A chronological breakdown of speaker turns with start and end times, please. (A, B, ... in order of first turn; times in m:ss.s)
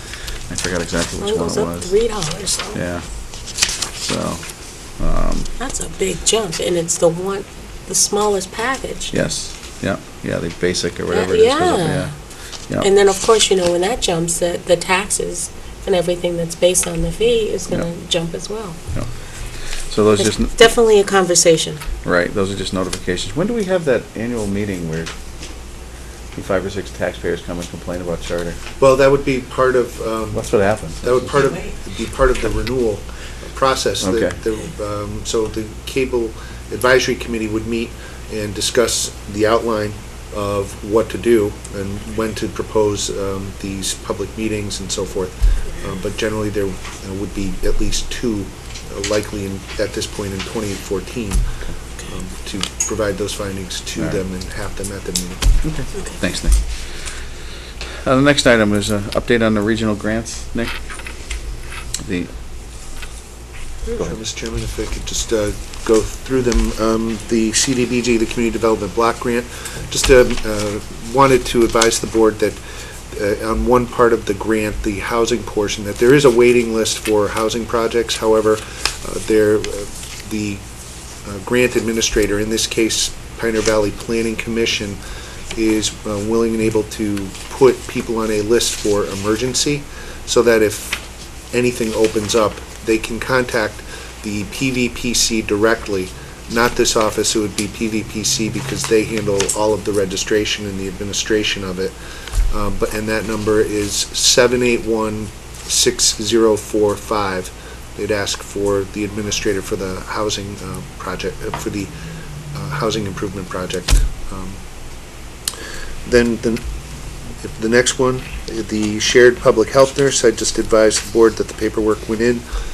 0:00.5-0:02.0 A
0:01.2-0:02.8 B
0:02.7-0:04.4 A
0:05.0-0:05.5 A
0:05.6-0:09.1 B
0:09.1-0:12.1 A
0:11.1-0:12.1 B
0:12.8-0:18.8 B
0:19.6-0:20.7 A
0:20.2-0:21.8 B
0:22.0-0:25.1 A
0:26.3-0:28.6 A
0:28.8-0:30.4 C
0:30.3-0:31.3 A
0:31.0-0:51.4 C
0:34.0-0:34.4 A
0:52.1-0:55.4 C
0:55.6-0:56.7 A
0:58.0-1:00.9 A
1:02.0-1:02.3 A
1:04.0-1:12.6 C
1:13.1-1:20.6 C
1:21.2-1:25.0 C
1:25.5-1:41.9 C
1:42.5-1:51.9 C
1:52.5-1:54.6 C
1:56.0-1:56.6 C
1:57.4-2:02.4 C